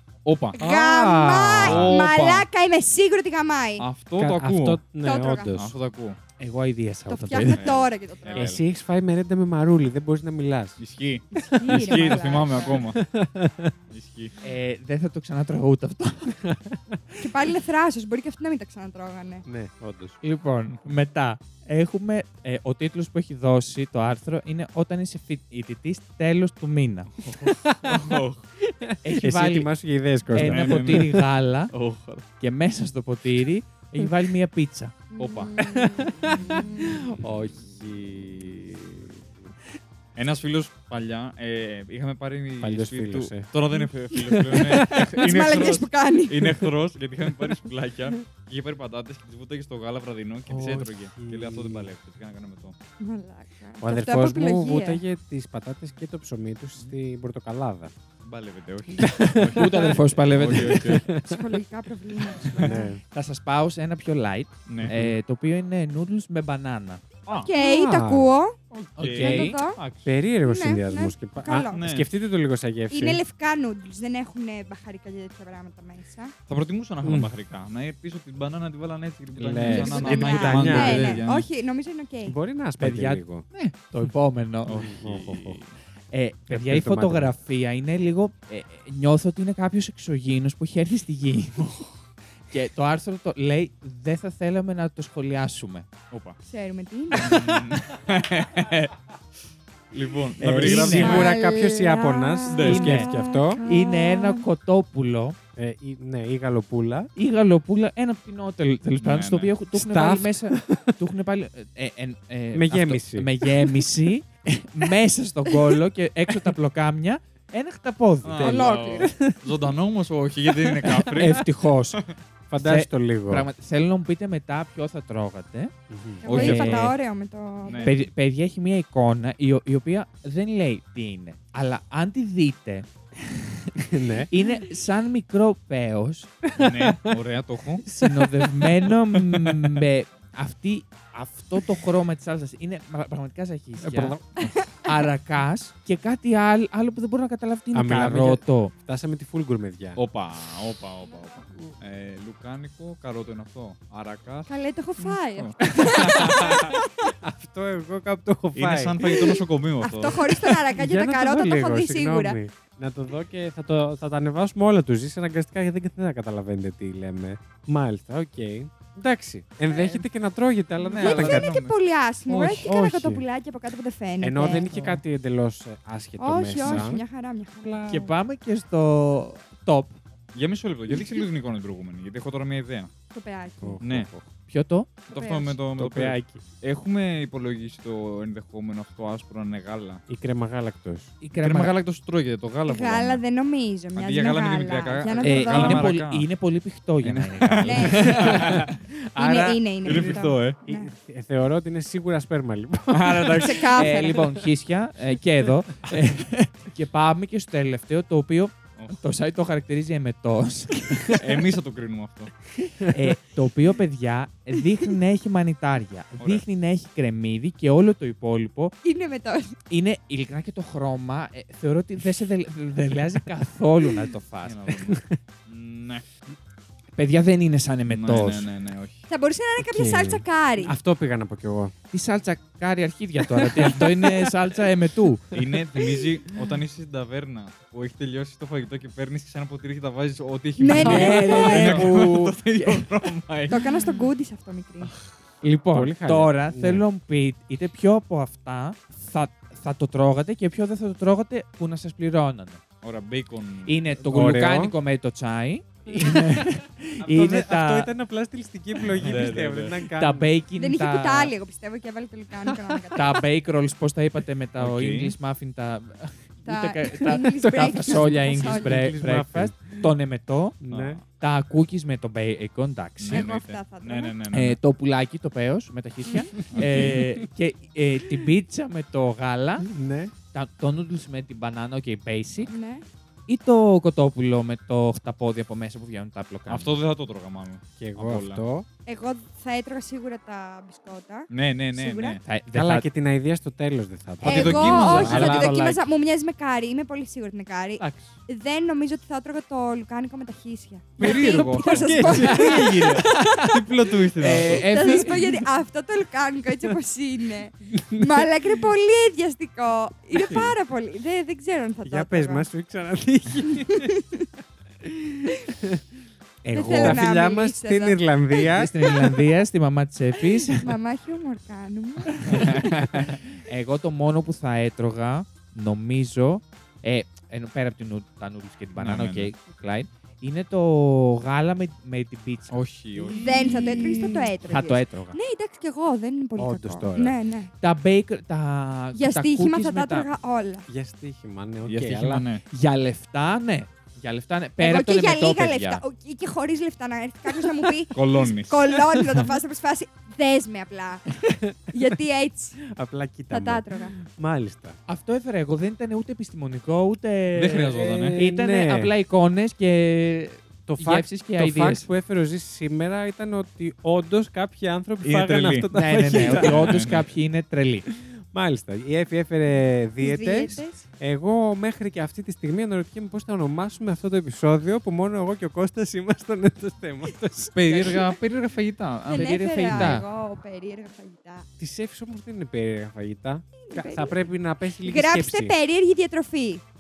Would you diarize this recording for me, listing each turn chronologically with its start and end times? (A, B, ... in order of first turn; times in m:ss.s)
0:00.2-0:00.6 A
0:00.5-0:03.8 B
0:00.6-0:02.0 C
0:01.6-0:02.5 A
0:03.8-0:04.8 A
0:04.2-0:05.8 C
0:05.0-0:05.6 B
0:05.5-0:06.2 A
0:06.4-0:07.8 D
0:07.1-0:08.6 B
0:07.4-0:08.6 A
0:08.3-0:10.8 C
0:10.8-0:13.0 A
0:11.4-0:13.7 C
0:11.5-0:12.8 B
0:13.9-0:14.4 A
0:14.4-0:16.5 D
0:16.5-0:17.0 C
0:17.2-0:19.4 B
0:19.5-0:20.2 C
0:20.2-0:27.2 D
0:27.4-0:28.2 C
0:27.8-0:28.4 A
0:28.7-0:31.2 C
0:29.0-0:29.7 D
0:30.3-0:31.7 D
0:30.3-0:32.2 A
0:32.4-0:35.0 D
0:35.1-0:37.0 B
0:35.2-0:35.6 A
0:35.6-0:39.0 C
0:40.2-0:52.8 A
0:42.6-0:43.5 C
0:44.1-0:45.1 C
0:44.3-0:46.5 B
0:50.5-0:51.9 C
0:53.0-0:55.0 B
0:53.8-0:57.9 C
0:58.2-1:01.1 A
0:59.0-1:01.4 C
0:59.3-1:01.0 D
1:01.2-1:02.9 B
1:02.4-1:02.7 A
1:02.6-1:03.0 C
1:03.1-1:07.0 D
1:04.7-1:04.9 A
1:04.8-1:05.2 C
1:07.4-1:09.8 B
1:07.5-1:08.3 C
1:09.0-1:09.6 D
1:09.0-1:10.1 A
1:10.0-1:13.2 C
1:10.4-1:11.8 B
1:11.7-1:12.1 A
1:12.9-1:16.3 B
1:16.5-1:21.5 A
1:17.0-1:17.3 C
1:19.4-1:21.2 C
1:19.7-1:22.4 B
1:20.0-1:20.8 D
1:22.3-1:23.4 C
1:22.8-1:24.8 D
1:24.6-1:25.7 A
1:24.7-1:25.6 C
1:26.1-1:31.9 D
1:26.5-1:27.3 C
1:32.5-1:35.9 D
1:36.1-1:36.4 A
1:36.5-1:37.5 B
1:37.1-1:39.0 A
1:39.9-1:41.3 A
1:40.4-1:43.6 C
1:40.4-1:41.2 D
1:40.9-1:44.4 B
1:42.5-1:43.0 A
1:42.6-1:43.1 D
1:43.6-1:45.4 D
1:45.6-1:47.1 C
1:47.2-1:58.9 D
1:49.0-1:49.5 A
1:49.7-1:51.0 C
1:52.5-1:53.4 C
1:58.2-2:02.1 A
1:58.4-1:59.1 B
2:00.6-2:01.4 C
2:01.0-2:02.0 D
2:02.5-2:03.5 C
2:02.6-2:05.7 D
2:05.9-2:06.7 C
2:06.2-2:07.9 B
2:06.2-2:06.9 A
2:06.3-2:07.0 D
2:07.7-2:08.0 A
2:07.8-2:16.3 D
2:13.8-2:14.3 C
2:16.5-2:17.8 A
2:16.6-2:17.2 C
2:17.8-2:24.2 D
2:18.0-2:18.7 C
2:19.2-2:19.8 A
2:23.8-2:24.2 C
2:24.4-2:25.0 B
2:24.8-2:28.7 D
2:27.7-2:30.0 C
2:30.0-2:34.5 A
2:34.5-2:37.1 B
2:35.3-2:36.7 A
2:35.6-2:39.4 C
2:38.6-2:40.3 A
2:39.8-2:42.4 B
2:40.2-2:51.5 C
2:49.7-2:50.0 B
2:50.9-2:51.7 A
2:51.0-2:54.7 B
2:52.3-2:53.2 C
2:54.2-2:57.0 C
2:54.7-2:55.0 D
2:56.2-2:57.9 B
2:56.6-2:56.9 A
2:57.6-2:58.2 C
2:57.9-3:00.0 D
3:00.3-3:02.9 A
3:03.1-3:03.8 B
3:03.6-3:04.3 C
3:03.8-3:04.1 A
3:04.5-3:04.9 D
3:05.1-3:05.6 B
3:05.1-3:10.0 A
3:05.8-3:06.4 C
3:10.1-3:11.1 C
3:11.2-3:11.7 D
3:11.4-3:13.2 A
3:12.7-3:15.9 B
3:14.0-3:16.3 A
3:15.2-3:18.1 D
3:17.0-3:18.8 A
3:17.6-3:18.5 B
3:17.8-3:24.4 C
3:19.2-3:20.9 B
3:19.8-3:20.6 A
3:22.9-3:23.8 A
3:23.4-3:24.2 B
3:23.7-3:31.4 D
3:31.1-3:32.3 A
3:32.6-3:38.7 D
3:36.2-3:36.4 A
3:38.8-3:39.6 B
3:39.7-3:44.8 D
3:44.4-3:46.0 A
3:44.9-3:45.2 C
3:47.0-3:48.5 D
3:47.9-3:49.0 A
3:49.1-3:50.8 B
3:49.6-3:51.7 C
3:51.9-3:55.4 D
3:53.4-3:54.1 C
3:55.3-4:03.6 A
4:00.6-4:01.9 B
4:00.7-4:02.8 D
4:00.9-4:01.9 C
4:03.5-4:04.9 B
4:05.4-4:06.8 C
4:05.5-4:12.6 D
4:12.8-4:13.8 A
4:13.7-4:17.9 D
4:14.0-4:14.8 C
4:15.9-4:20.3 C
4:18.9-4:19.8 A
4:19.9-4:21.3 D
4:20.6-4:23.2 B
4:22.9-4:30.6 D
4:24.6-4:25.1 A
4:26.4-4:28.8 B
4:27.0-4:29.9 C
4:30.6-4:31.0 C
4:30.7-4:31.0 A
4:31.2-4:33.3 D
4:33.0-4:34.6 A
4:33.1-4:34.1 B
4:34.3-4:39.7 D
4:36.1-4:36.3 B
4:36.5-4:37.1 A
4:39.6-4:40.1 C
4:40.3-4:42.5 D
4:42.5-4:42.8 B
4:43.3-4:46.8 D
4:46.5-4:48.4 A
4:47.8-4:48.7 C
4:48.9-4:52.2 B
4:51.3-4:52.2 A
4:52.2-4:52.9 D
4:52.5-4:55.7 C
4:54.2-4:55.7 A
4:54.2-5:03.3 B
4:54.9-4:55.4 D
4:57.8-4:58.2 C
5:01.0-5:03.6 C
5:01.0-5:04.8 A
5:02.0-5:03.4 D
5:04.2-5:05.4 D
5:04.5-5:12.5 B
5:07.7-5:08.6 C
5:10.1-5:10.6 C
5:11.8-5:14.0 C
5:13.7-5:14.3 B
5:14.8-5:15.8 C
5:16.4-5:19.4 C
5:16.5-5:18.5 B
5:16.7-5:17.0 D
5:18.5-5:20.7 D
5:20.3-5:22.8 B
5:22.1-5:32.6 D
5:22.3-5:23.1 A
5:28.8-5:29.3 A
5:32.5-5:33.6 A
5:33.0-5:34.3 C
5:33.2-5:37.5 B
5:33.4-5:35.2 D
5:36.4-5:37.2 C
5:37.6-5:40.1 D
5:39.0-5:40.7 B
5:40.7-5:42.3 C
5:41.6-5:42.4 A
5:42.5-5:45.8 D
5:44.6-5:51.1 B
5:48.0-5:49.3 A
5:51.3-5:51.5 C
5:51.7-5:52.6 B
5:52.6-5:54.8 C
5:53.3-5:54.0 B
5:54.9-6:01.9 D
5:57.3-5:58.2 A
5:57.6-5:58.9 C
6:00.7-6:06.8 C
6:05.0-6:07.1 A
6:05.7-6:07.9 D
6:08.0-6:18.1 C
6:10.0-6:10.8 B
6:17.5-6:20.0 A
6:19.1-6:20.1 D
6:19.1-6:21.5 B
6:21.6-6:25.6 C
6:23.6-6:24.2 B
6:24.8-6:26.6 B